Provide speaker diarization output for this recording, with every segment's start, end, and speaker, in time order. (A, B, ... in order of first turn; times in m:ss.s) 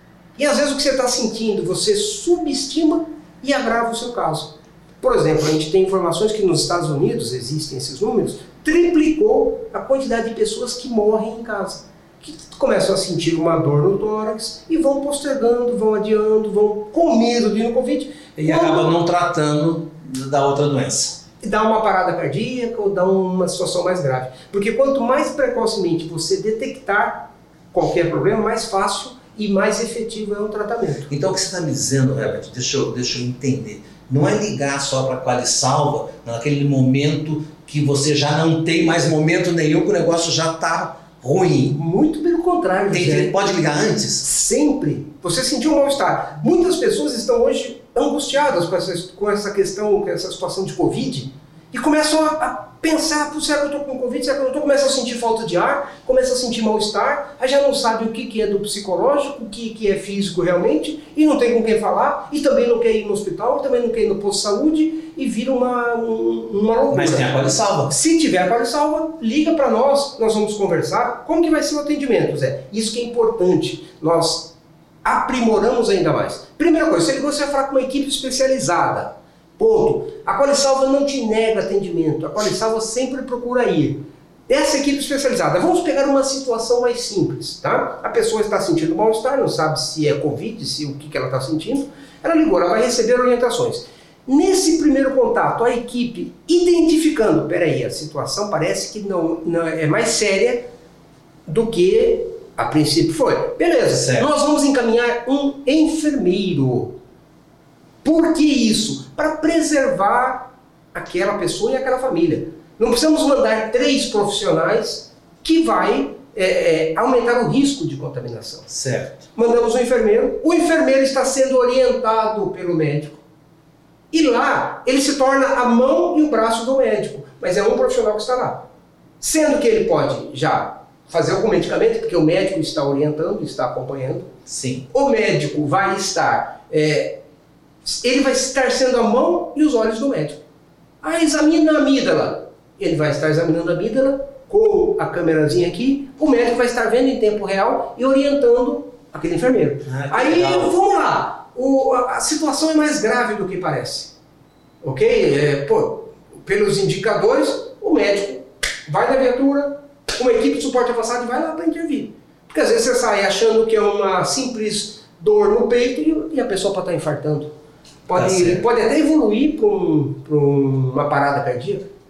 0:00.4-0:18.9 A
0:18.4-0:21.2 B
0:21.4-0:31.1 A
0:31.1-0:41.8 B
0:41.7-1:40.7 A
0:42.9-0:44.3 B
1:06.9-1:08.0 B
1:41.5-1:46.9 A
1:43.9-1:44.3 B
1:48.0-1:58.7 A
1:58.7-1:59.3 B
1:59.4-2:03.2 A
2:04.1-2:08.6 A
2:09.2-2:14.3 A
2:14.5-2:14.9 B
2:14.9-2:17.2 A
2:17.8-2:20.4 A
2:21.0-2:34.1 A
2:29.9-2:30.7 B
2:34.8-2:47.5 A
2:48.1-2:51.9 A
2:48.1-2:48.6 B